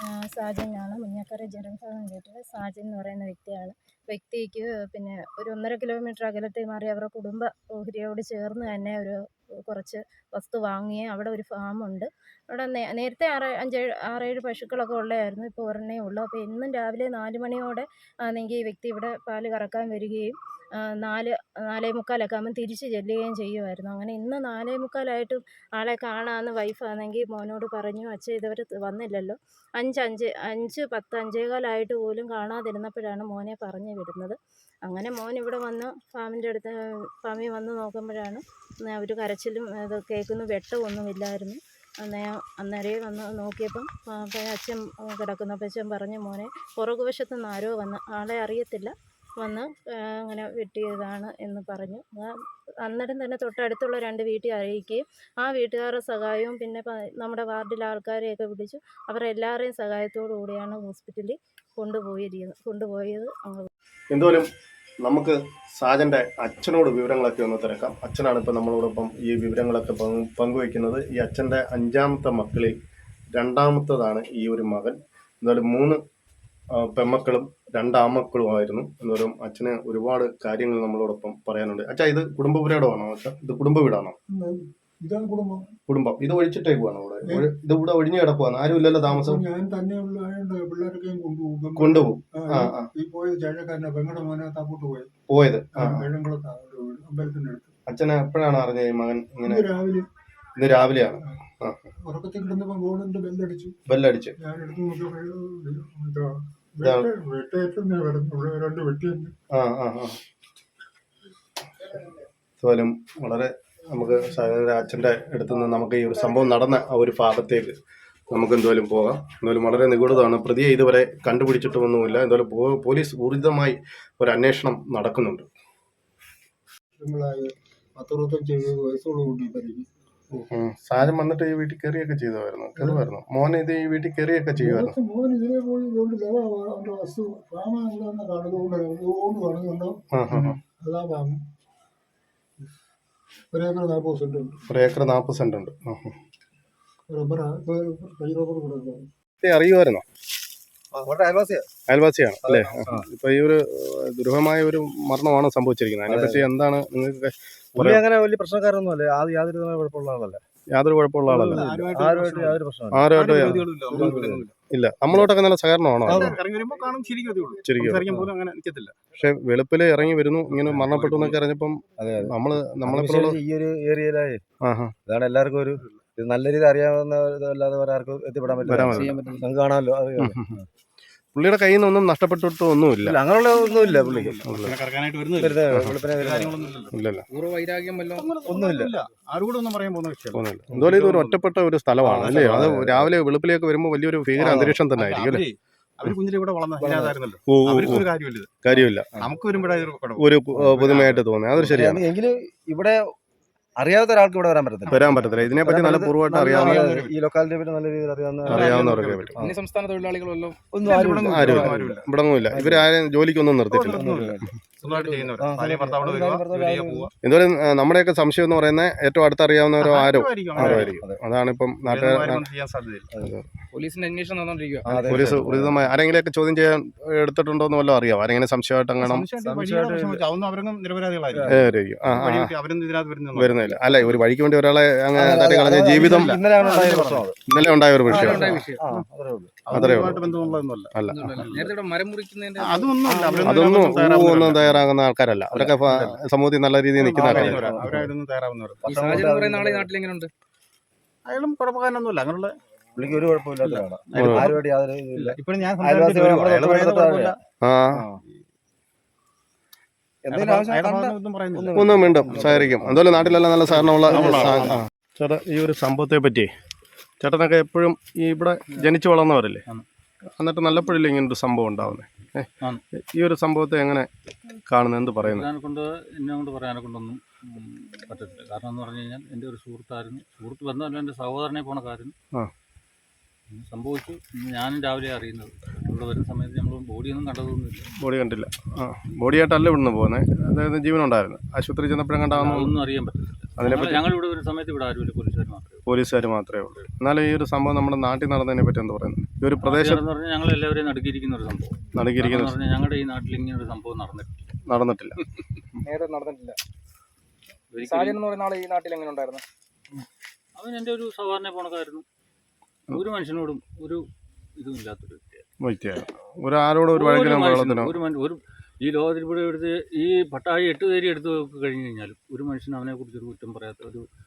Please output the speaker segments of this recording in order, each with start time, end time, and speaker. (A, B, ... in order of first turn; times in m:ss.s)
0:00.2-0:20.4 A
0:21.0-0:52.3 A
0:52.8-1:03.7 A
1:04.1-1:04.5 B
1:05.0-1:12.8 B
1:13.3-1:16.0 B
1:16.7-1:24.2 B
1:24.3-1:25.7 C
1:25.9-1:29.4 B
1:29.1-1:35.1 C
1:31.8-1:32.9 B
1:35.3-1:36.1 B
1:35.7-1:37.7 C
1:37.9-1:39.7 B
1:39.5-1:40.0 C
1:40.6-1:41.8 B
1:42.0-1:43.7 C
1:43.9-1:44.3 B
1:44.4-1:49.3 C
1:46.8-1:47.1 B
1:49.5-1:50.2 B
1:52.6-1:57.8 B
1:58.3-2:05.4 B
2:07.0-2:09.8 C
2:10.5-2:14.9 B
2:12.7-2:13.0 C
2:14.6-2:21.3 C
2:20.1-2:20.6 B
2:23.5-2:24.6 C
2:24.7-2:26.2 B
2:27.1-2:29.0 C
2:29.4-2:30.0 B
2:30.9-2:31.7 D
2:31.9-2:38.0 B
2:32.4-2:33.1 D
2:36.1-2:36.4 D
2:37.8-2:40.4 D
2:40.7-2:41.7 B
2:41.3-2:44.4 D
2:41.7-2:42.6 E
2:42.9-2:43.6 B
2:43.1-2:44.5 E
2:44.7-2:46.3 B
2:46.0-2:46.4 D
2:46.3-2:49.0 E
2:47.6-2:48.1 B
2:47.8-2:48.3 D
2:49.1-2:53.4 B
2:50.6-2:51.3 E
2:52.0-2:54.4 D
2:54.6-2:54.9 B
2:55.0-3:00.6 D
2:58.7-2:59.2 B
2:58.9-2:59.4 F
3:00.2-3:00.6 B
3:01.3-3:03.2 B
3:03.0-3:04.4 D
3:03.7-3:05.6 E
3:04.4-3:04.8 B
3:05.4-3:06.6 D
3:05.7-3:06.0 B
3:06.2-3:06.9 E
3:06.9-3:07.2 B
3:07.3-3:08.3 F
3:08.2-3:11.4 E
3:08.4-3:09.0 D
3:10.3-3:15.4 B
3:10.7-3:11.1 D
3:12.0-3:13.2 D
3:14.4-3:14.8 D
3:14.9-3:18.6 E
3:16.8-3:17.2 D
3:17.4-3:18.1 B
3:18.6-3:19.2 B
3:19.2-3:20.2 E
3:20.2-3:22.0 B
3:20.5-3:20.9 D
3:20.8-3:21.2 E
3:21.6-3:23.1 D
3:23.8-3:29.6 D
3:24.9-3:26.8 B
3:26.5-3:27.1 E
3:28.5-3:29.4 B
3:28.6-3:29.3 E
3:29.4-3:30.6 F
3:30.7-3:32.9 D
3:30.8-3:32.0 E
3:31.3-3:34.0 B
3:33.7-3:37.1 E
3:33.9-3:37.1 D
3:37.2-3:42.4 B
3:39.8-3:41.0 E
3:40.5-3:41.2 D
3:41.8-3:43.1 E
3:43.2-3:43.4 B
3:43.7-3:45.2 F
3:44.9-3:45.9 D
3:45.1-3:49.3 B
3:49.0-3:51.6 E
3:49.4-3:50.2 D
3:51.3-3:51.7 D
3:51.5-3:52.5 B
3:52.1-3:53.9 E
3:53.3-3:56.3 B
3:55.1-3:57.4 D
3:56.1-3:57.2 E
3:57.5-3:58.6 B
3:58.0-3:58.9 F
3:58.1-4:00.6 D
3:58.4-3:58.7 E
3:59.7-4:00.1 B
3:59.8-4:01.7 E
4:00.9-4:01.2 B
4:01.0-4:03.0 F
4:02.7-4:04.7 E
4:03.0-4:03.9 D
4:03.4-4:07.6 B
4:05.5-4:06.1 D
4:07.0-4:09.0 E
4:07.1-4:08.1 D
4:08.8-4:09.9 D
4:08.9-4:10.3 F
4:11.2-4:12.5 E
4:13.0-4:17.3 D
4:13.6-4:14.3 E
4:14.1-4:14.5 B
4:15.3-4:17.3 E
4:17.6-4:18.1 B
4:20.3-4:24.8 D
4:20.3-4:22.6 E
4:21.7-4:26.5 B
4:24.1-4:24.8 E
4:27.2-4:29.6 B
4:30.4-4:32.5 B
4:33.1-4:35.5 B
4:35.2-4:42.1 G
4:43.5-4:47.9 G
4:48.0-4:52.7 B
4:52.3-4:55.8 G
4:53.6-4:54.1 B
4:55.9-5:00.0 B
4:59.6-5:04.4 G
5:01.9-5:02.6 B
5:04.6-5:05.2 B
5:05.8-5:06.6 F
5:07.7-5:08.2 G
5:07.8-5:09.4 F
5:10.6-5:12.0 G
5:12.9-5:14.0 G
5:14.6-5:15.4 G
5:15.6-5:17.9 B
5:16.9-5:24.0 G